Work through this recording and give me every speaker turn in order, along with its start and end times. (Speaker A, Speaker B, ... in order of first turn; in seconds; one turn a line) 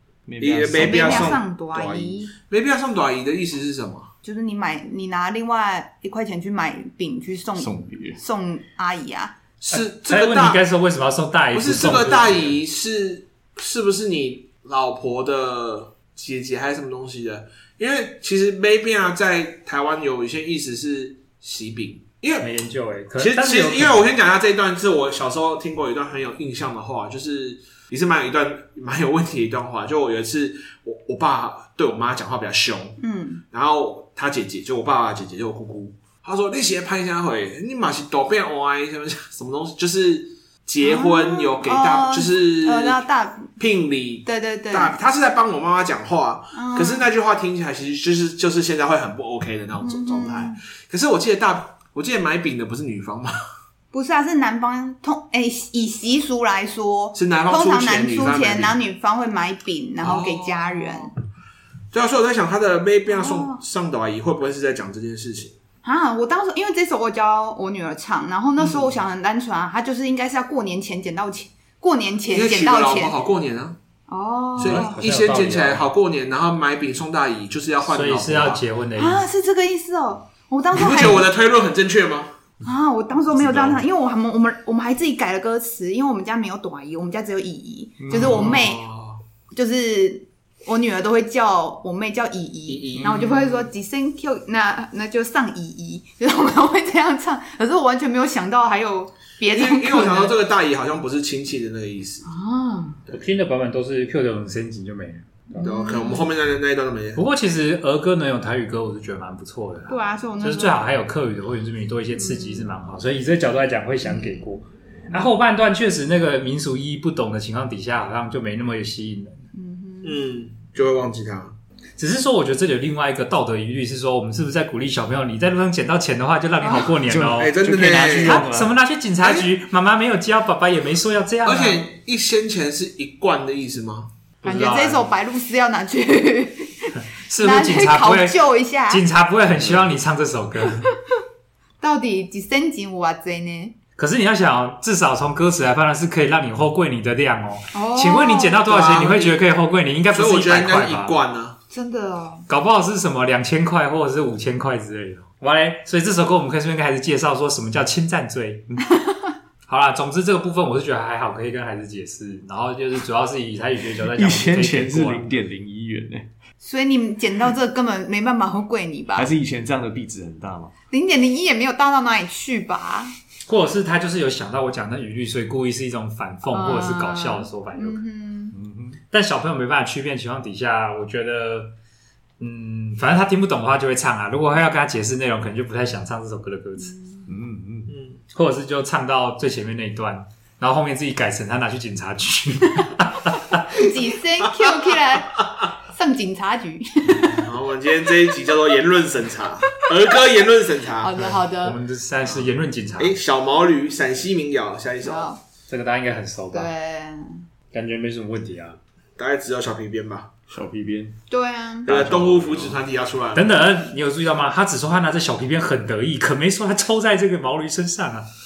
Speaker A: 0.2-1.4
Speaker B: 0.4-4.1
Speaker C: 0.7-2.3
Speaker C: 4.2-9.3
Speaker A: 7.5-8.2
Speaker B: 9.6-10.6
Speaker D: 9.7-12.6
Speaker B: 11.5-22.5
Speaker D: 22.4-24.0
Speaker B: 23.2-33.0
Speaker C: 33.0-33.4
Speaker B: 33.5-43.0
Speaker C: 40.8-43.5
Speaker B: 43.5-53.3
Speaker C: 44.2-45.0
Speaker C: 46.5-47.0
Speaker C: 49.8-50.6
Speaker C: 53.9-61.1
Speaker B: 57.1-58.8
Speaker B: 60.0-61.1
Speaker B: 61.9-65.5
Speaker C: 63.1-63.6
Speaker C: 65.8-73.1
Speaker B: 72.3-73.8
Speaker C: 74.1-75.0
Speaker B: 74.6-78.6
Speaker D: 74.6-75.8
Speaker D: 77.9-79.2
Speaker C: 79.0-81.2
Speaker B: 80.7-82.3
Speaker C: 82.6-88.8
Speaker B: 83.4-83.8
Speaker A: 88.0-88.5
Speaker B: 88.1-89.2
Speaker C: 89.5-100.3
Speaker B: 92.7-93.7
Speaker B: 99.5-102.2
Speaker C: 102.2-103.0
Speaker D: 103.1-105.7
Speaker C: 105.5-106.3
Speaker B: 105.6-107.2
Speaker D: 107.2-119.4
Speaker C: 109.9-110.8
Speaker C: 112.2-112.7
Speaker C: 119.5-120.2
Speaker B: 120.0-121.5
Speaker D: 122.0-127.5
Speaker C: 126.6-126.9
Speaker A: 126.9-128.7
Speaker B: 127.3-128.4
Speaker D: 128.1-131.9
Speaker B: 129.2-129.5
Speaker B: 131.4-134.1
Speaker D: 134.4-135.1
Speaker C: 134.4-139.0
Speaker D: 137.3-140.9
Speaker C: 141.8-143.7
Speaker D: 144.0-151.2
Speaker C: 147.7-148.6
Speaker B: 148.7-149.4
Speaker B: 150.1-151.6
Speaker C: 151.7-152.5
Speaker D: 152.5-158.9
Speaker D: 159.7-165.3
Speaker A: 164.1-166.2
Speaker C: 166.6-169.3
Speaker A: 169.1-170.7
Speaker C: 170.9-173.1
Speaker D: 173.5-178.0
Speaker C: 176.5-178.6
Speaker A: 178.5-179.0
Speaker D: 179.1-181.7
Speaker D: 182.4-186.9
Speaker C: 186.8-187.2
Speaker A: 187.3-187.9
Speaker B: 187.9-188.2
Speaker D: 188.3-193.7
Speaker C: 193.7-197.4
Speaker B: 194.6-195.0
Speaker B: 197.1-201.1
Speaker C: 201.0-201.8
Speaker D: 201.2-203.2
Speaker B: 203.0-205.3
Speaker C: 205.0-205.4
Speaker D: 205.7-206.7
Speaker C: 206.5-207.4
Speaker D: 207.7-208.8
Speaker B: 209.2-210.3
Speaker A: 210.5-211.1
Speaker C: 211.3-211.9
Speaker A: 211.8-212.8
Speaker B: 211.8-213.6
Speaker D: 213.3-218.2